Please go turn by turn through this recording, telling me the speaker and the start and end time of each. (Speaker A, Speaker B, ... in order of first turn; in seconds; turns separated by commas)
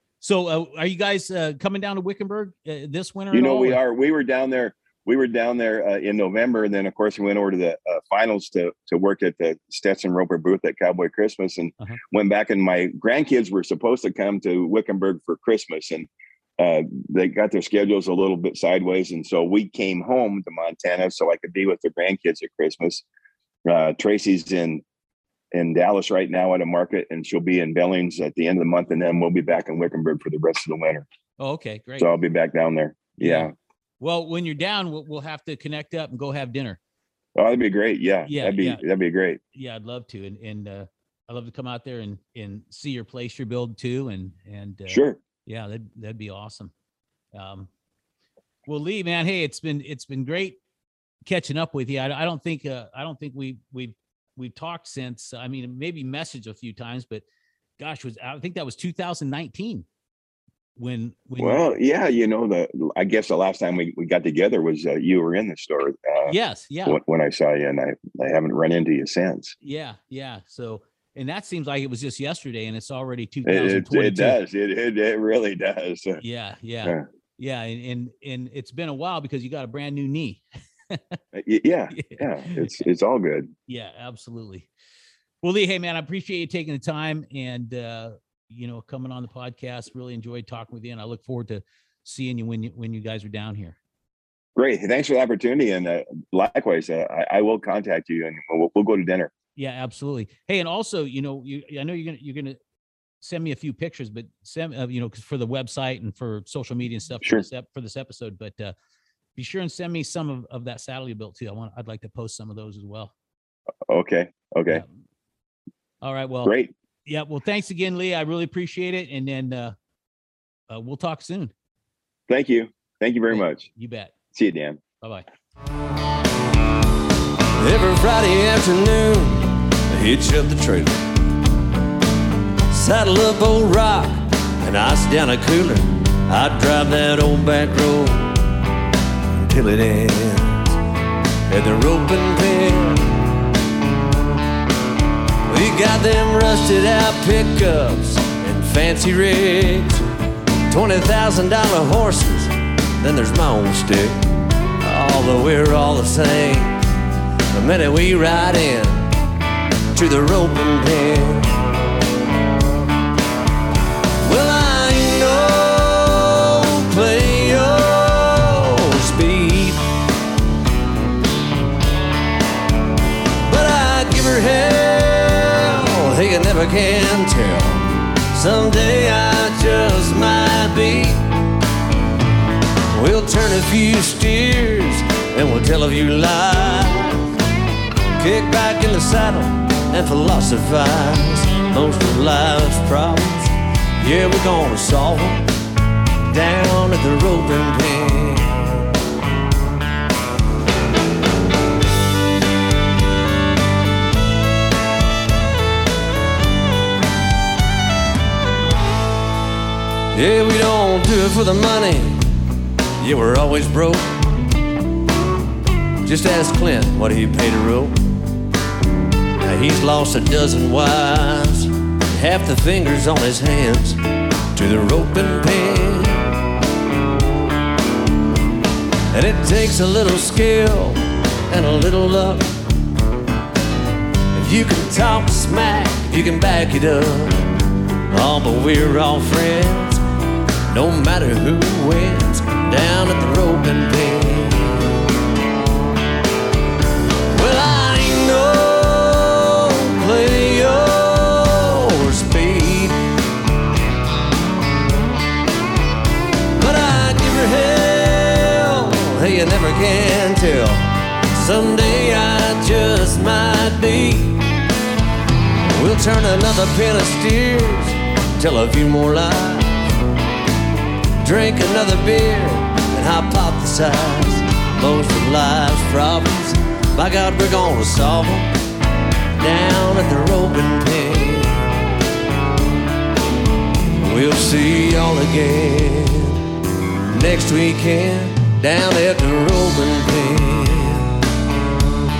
Speaker A: 0.2-3.8, Speaker B: 3.3-23.0, Speaker B: 23.6-24.8, Speaker B: 25.5-31.1, Speaker A: 31.4-32.1, Speaker B: 32.0-33.5, Speaker A: 33.2-36.8, Speaker B: 37.4-39.4, Speaker A: 38.2-38.8, Speaker A: 39.5-46.7, Speaker B: 44.9-45.2, Speaker A: 47.3-47.7, Speaker A: 48.7-50.6, Speaker A: 51.3-57.2, Speaker A: 57.8-59.9, Speaker A: 60.8-61.6, Speaker B: 61.4-66.3, Speaker A: 66.2-67.0, Speaker B: 66.8-69.5, Speaker A: 69.6-74.4, Speaker B: 73.4-76.2, Speaker A: 76.2-81.2, Speaker B: 81.3-83.5, Speaker A: 81.9-82.8, Speaker A: 83.7-84.7, Speaker A: 85.4-93.8, Speaker B: 94.5-99.3, Speaker A: 99.5-102.6, Speaker A: 103.2-108.7, Speaker A: 109.3-113.1, Speaker B: 113.9-114.8, Speaker A: 114.7-115.0, Speaker A: 116.0-116.5, Speaker B: 116.4-116.7, Speaker A: 117.0-119.7, Speaker A: 120.7-121.5, Speaker B: 122.3-123.7, Speaker A: 123.3-124.1, Speaker B: 124.3-124.8, Speaker A: 125.0-125.2, Speaker C: 127.6-131.0, Speaker C: 132.7-138.4, Speaker C: 139.3-140.8, Speaker C: 141.5-143.3, Speaker C: 145.5-150.1, Speaker C: 150.7-156.8, Speaker C: 157.5-159.1, Speaker C: 159.9-161.5, Speaker C: 164.2-169.8, Speaker C: 173.4-181.3, Speaker C: 182.9-187.2, Speaker C: 188.2-195.5, Speaker C: 196.3-198.9, Speaker C: 210.1-212.3, Speaker C: 213.0-214.2, Speaker C: 216.0-218.0, Speaker C: 219.4-224.0, Speaker C: 224.5-226.3, Speaker C: 229.1-232.6, Speaker C: 234.3-237.5, Speaker C: 238.1-240.0, Speaker C: 240.7-245.0, Speaker C: 247.3-253.0, Speaker C: 256.6-264.5, Speaker C: 265.7-269.9, Speaker C: 271.2-278.5, Speaker C: 279.4-281.7, Speaker C: 284.0-286.4, Speaker C: 287.1-291.2